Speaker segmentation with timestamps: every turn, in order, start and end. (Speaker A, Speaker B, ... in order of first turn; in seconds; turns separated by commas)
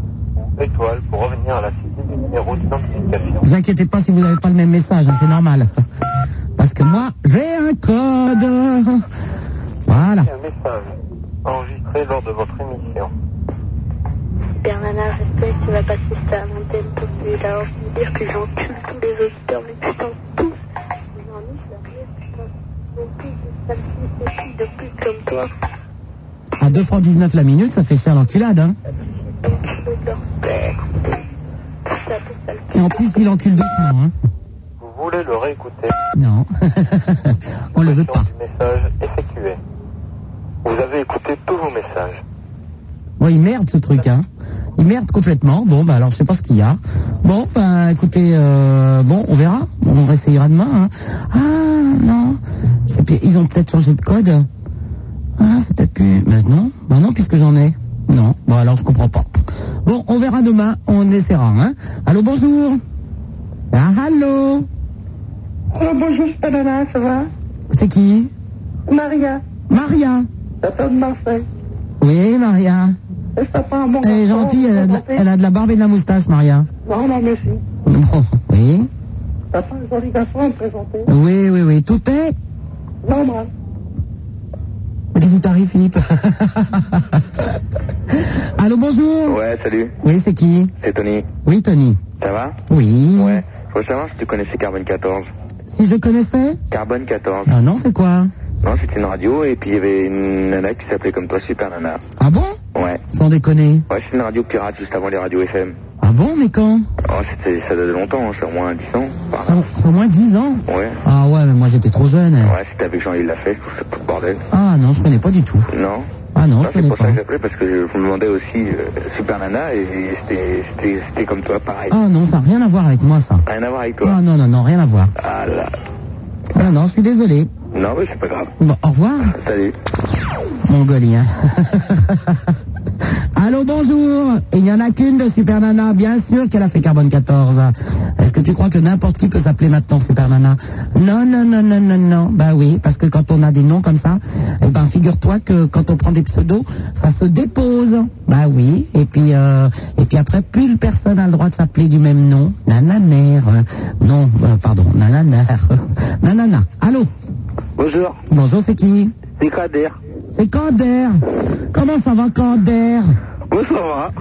Speaker A: 0.4-3.5, Speaker B: 3.4-5.7, Speaker B: 6.6-9.1, Speaker B: 9.9-10.3, Speaker A: 9.9-10.9, Speaker A: 11.4-13.1, Speaker C: 14.6-20.6, Speaker C: 21.2-25.5, Speaker B: 26.6-28.8, Speaker C: 29.2-31.2, Speaker C: 31.9-32.9, Speaker B: 32.7-34.1, Speaker A: 34.8-35.9, Speaker B: 36.1-38.3, Speaker A: 37.8-39.6, Speaker A: 40.6-42.2, Speaker B: 43.2-44.2, Speaker B: 44.8-54.5, Speaker B: 55.4-62.8, Speaker B: 63.7-64.7, Speaker D: 65.8-67.3, Speaker B: 67.7-68.3, Speaker D: 68.9-69.4, Speaker B: 69.7-70.3, Speaker D: 70.6-71.5, Speaker B: 72.0-73.0, Speaker D: 73.4-75.2, Speaker B: 74.0-76.7, Speaker D: 76.9-77.6, Speaker B: 77.9-78.9, Speaker D: 79.5-81.1, Speaker B: 81.1-82.4, Speaker D: 83.0-83.5, Speaker B: 85.1-86.8, Speaker B: 88.6-89.4, Speaker E: 89.3-90.0, Speaker B: 90.0-90.7, Speaker E: 90.8-91.3, Speaker B: 91.5-92.0, Speaker E: 92.2-92.6, Speaker B: 92.7-93.4, Speaker E: 93.2-95.3, Speaker B: 95.7-96.6, Speaker E: 96.7-97.5, Speaker B: 97.5-98.3, Speaker E: 98.6-102.0, Speaker B: 102.2-102.6, Speaker E: 102.8-103.0, Speaker B: 103.1-103.8, Speaker E: 103.9-105.8, Speaker B: 106.0-106.8, Speaker E: 107.0-109.6, Speaker B: 109.4-112.5, Speaker E: 110.7-111.0, Speaker E: 112.4-114.4, Speaker B: 114.5-115.7, Speaker E: 115.7-116.1, Speaker B: 116.3-117.2, Speaker E: 116.6-122.0, Speaker B: 121.9-123.4, Speaker E: 123.5-124.2, Speaker B: 124.0-125.1, Speaker E: 125.2-125.7, Speaker B: 126.5-127.5, Speaker E: 127.7-128.5, Speaker B: 128.6-129.3, Speaker E: 129.3-129.8, Speaker B: 130.7-132.2, Speaker B: 133.4-157.1, Speaker D: 157.8-158.2, Speaker B: 158.3-159.1, Speaker D: 159.4-160.0, Speaker B: 160.3-163.1, Speaker D: 163.5-164.1